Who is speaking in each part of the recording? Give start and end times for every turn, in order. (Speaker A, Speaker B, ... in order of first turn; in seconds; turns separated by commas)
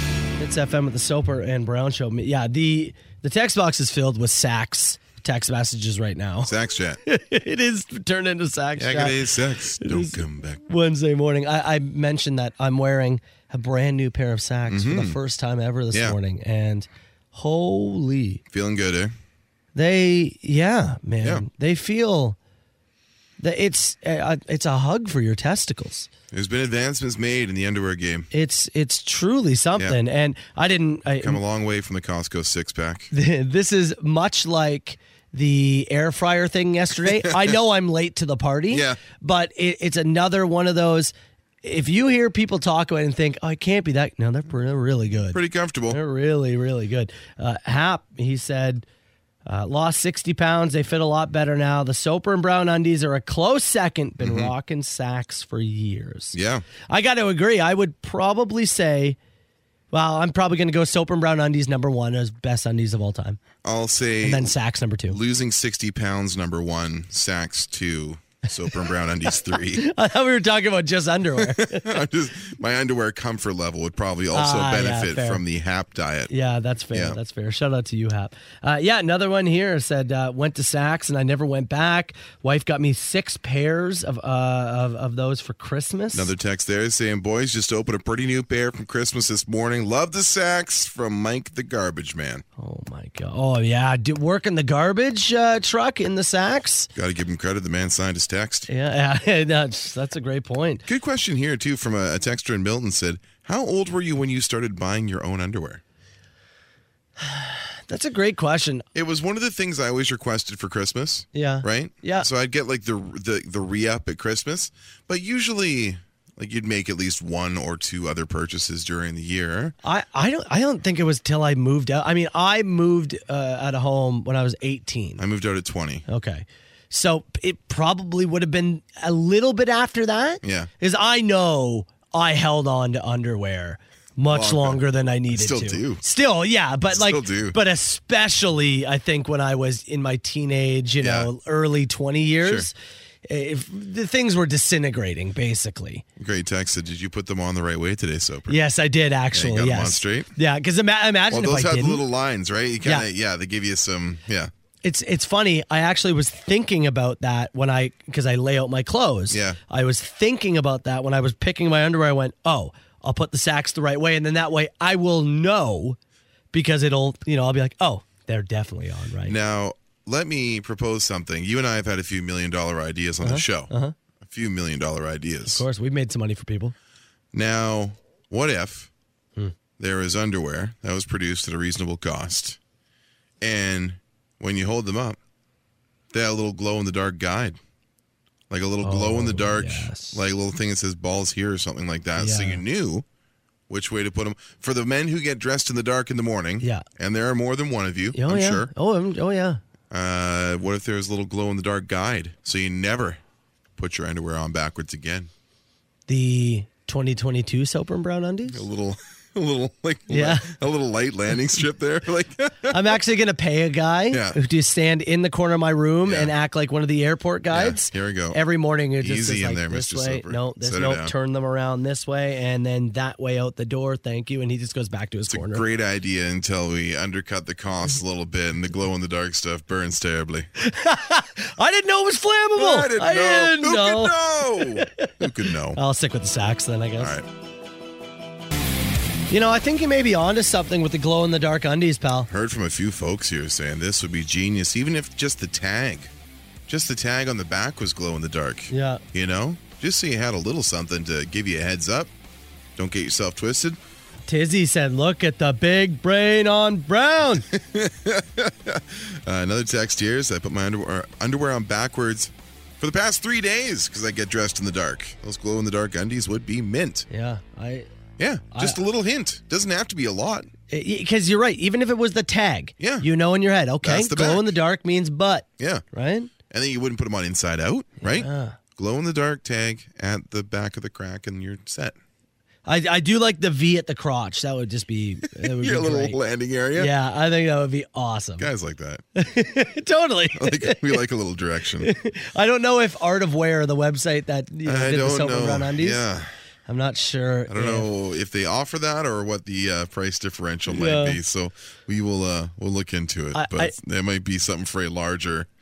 Speaker A: 0.4-6.5, Speaker B: 6.4-7.0, Speaker A: 7.0-9.2, Speaker B: 8.8-10.6, Speaker A: 9.8-10.2, Speaker A: 10.7-18.4, Speaker B: 14.7-15.2, Speaker B: 15.9-16.2, Speaker B: 18.5-19.1, Speaker A: 19.7-22.4, Speaker A: 23.4-26.1, Speaker B: 26.3-28.3, Speaker A: 28.3-31.4, Speaker B: 31.2-33.1, Speaker A: 33.1-48.8, Speaker B: 37.1-37.5, Speaker B: 38.7-39.0, Speaker B: 45.3-46.0, Speaker A: 49.5-56.4, Speaker B: 54.2-54.5, Speaker B: 56.3-56.6, Speaker A: 56.9-59.2, Speaker A: 59.9-63.4, Speaker B: 63.6-64.5, Speaker A: 64.2-65.2, Speaker B: 65.1-69.8, Speaker A: 69.7-72.0, Speaker B: 71.4-76.3, Speaker A: 74.3-75.4, Speaker A: 76.3-86.3, Speaker B: 76.9-77.2, Speaker B: 86.1-92.4, Speaker A: 92.6-96.9, Speaker B: 96.9-98.7, Speaker A: 98.7-100.8, Speaker B: 100.8-105.8, Speaker A: 107.2-108.8, Speaker B: 108.9-119.7, Speaker A: 111.3-112.3, Speaker A: 119.8-125.2, Speaker B: 125.2-126.0, Speaker A: 126.1-142.7, Speaker B: 130.4-130.7, Speaker B: 134.3-136.0, Speaker B: 136.9-137.6, Speaker B: 141.0-141.3, Speaker B: 142.4-142.7, Speaker A: 143.2-146.0, Speaker B: 146.2-148.6, Speaker A: 148.5-152.0, Speaker B: 149.3-150.3, Speaker B: 151.3-154.5, Speaker A: 154.8-166.0, Speaker B: 159.3-159.6, Speaker A: 166.5-169.3, Speaker B: 169.2-173.7, Speaker A: 173.2-173.9, Speaker B: 174.2-175.6, Speaker A: 175.4-176.7, Speaker B: 177.3-178.9, Speaker B: 179.8-182.6, Speaker B: 183.4-185.2, Speaker B: 186.1-187.6, Speaker B: 188.5-193.1, Speaker A: 188.8-190.2, Speaker A: 192.2-192.6, Speaker B: 193.7-198.7, Speaker A: 198.1-199.6, Speaker B: 199.9-203.2, Speaker B: 203.8-205.3, Speaker A: 206.1-208.6, Speaker B: 208.5-212.9, Speaker A: 210.1-210.5, Speaker A: 212.7-225.6, Speaker B: 214.1-214.4, Speaker B: 216.0-216.3, Speaker B: 217.5-218.4, Speaker B: 219.0-221.1, Speaker B: 225.3-230.5, Speaker A: 230.6-237.1, Speaker B: 232.6-235.8, Speaker B: 237.0-237.3, Speaker A: 239.3-242.3, Speaker B: 242.3-246.1, Speaker B: 246.7-252.1, Speaker A: 248.7-249.0, Speaker B: 252.8-253.8, Speaker A: 254.3-257.4, Speaker B: 257.5-267.1, Speaker A: 267.1-267.9, Speaker B: 268.2-270.5, Speaker A: 268.5-268.8, Speaker A: 270.7-276.3, Speaker B: 272.8-273.1, Speaker B: 273.8-274.5, Speaker B: 275.6-275.8, Speaker B: 276.5-281.9, Speaker A: 278.0-278.6, Speaker A: 282.6-286.2, Speaker B: 285.3-286.9, Speaker A: 286.7-288.5, Speaker B: 288.4-289.0, Speaker A: 289.1-291.0, Speaker B: 290.3-291.9, Speaker A: 291.8-296.0, Speaker B: 294.6-296.3, Speaker A: 296.6-297.9, Speaker B: 297.5-305.5, Speaker A: 300.7-301.2, Speaker A: 303.3-303.7